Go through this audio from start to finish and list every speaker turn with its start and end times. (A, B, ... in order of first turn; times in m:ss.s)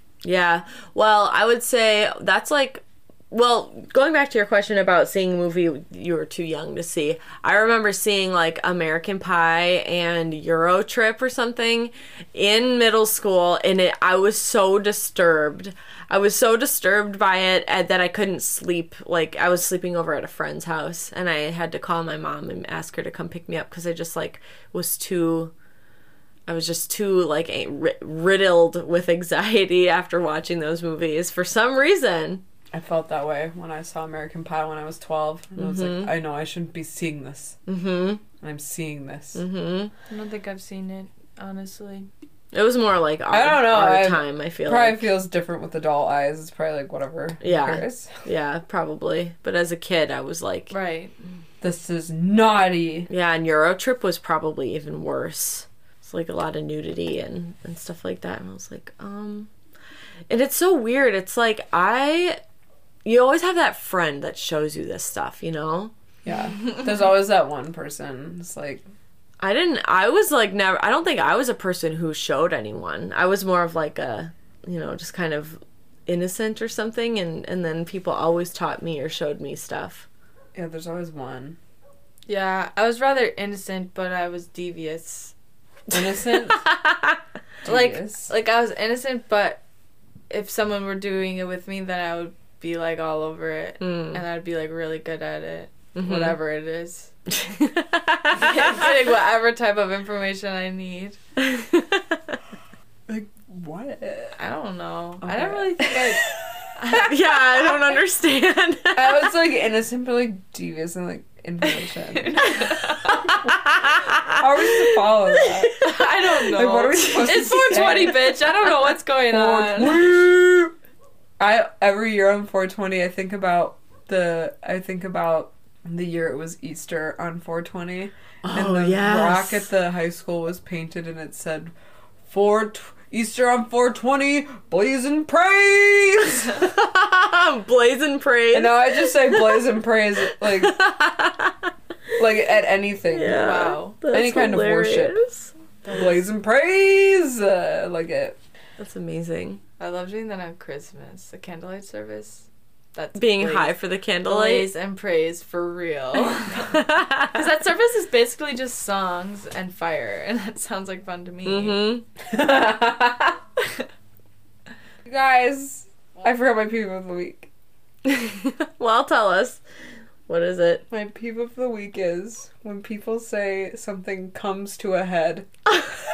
0:00.2-0:25.5 A
0:26.5-0:32.4 A
0:32.7-0:37.6 B
0:35.6-0:36.1 A
0:37.7-0:38.2 A
0:38.4-0:39.4 B
0:39.3-0:39.9 A
0:40.1-0:42.1 C
0:42.5-0:45.1 A
0:43.3-0:48.1 B
0:47.4-0:50.7 A
0:50.7-0:51.1 C
0:51.6-0:53.1 B
0:53.1-0:59.5 A
1:00.3-1:02.4 A
1:03.0-1:05.9 A
1:06.2-1:08.8 B
1:09.4-1:20.0 A
1:20.5-1:21.6 B
1:22.3-1:25.3 C
1:25.9-1:26.6 B
1:26.3-1:27.2 A
1:27.6-1:28.3 B
1:27.6-1:29.6 C
1:30.3-1:37.1 C
1:33.8-1:34.2 A
1:35.9-1:36.4 A
1:37.3-1:38.9 A
1:38.3-1:41.2 C
1:41.4-1:42.4 A
1:43.1-1:44.4 B
1:44.4-1:46.2 C
1:45.2-1:46.2 B
1:46.8-1:47.1 C
1:46.9-1:49.3 A
1:48.9-1:55.8 B
1:52.1-1:53.2 C
1:52.4-1:58.7 A
1:55.8-2:00.0 C
1:56.5-1:58.3 B
1:59.3-2:00.7 B
2:01.4-2:11.7 B
2:08.4-2:09.7 A
2:12.3-2:16.6 B
2:16.6-2:19.8 A
2:18.5-2:20.8 B
2:20.4-2:21.7 A
2:22.2-2:25.2 B
2:23.1-2:25.5 A
2:23.3-2:24.0 C
2:25.8-2:26.2 C
2:25.9-2:28.4 B
2:28.8-2:29.6 A
2:29.8-2:41.8 C
2:33.2-2:34.7 A
2:36.6-2:37.4 A
2:41.4-2:42.0 A
2:42.3-2:43.4 B
2:45.0-2:47.5 B
2:48.0-2:49.6 A
2:50.3-2:50.8 A
2:50.9-2:55.5 B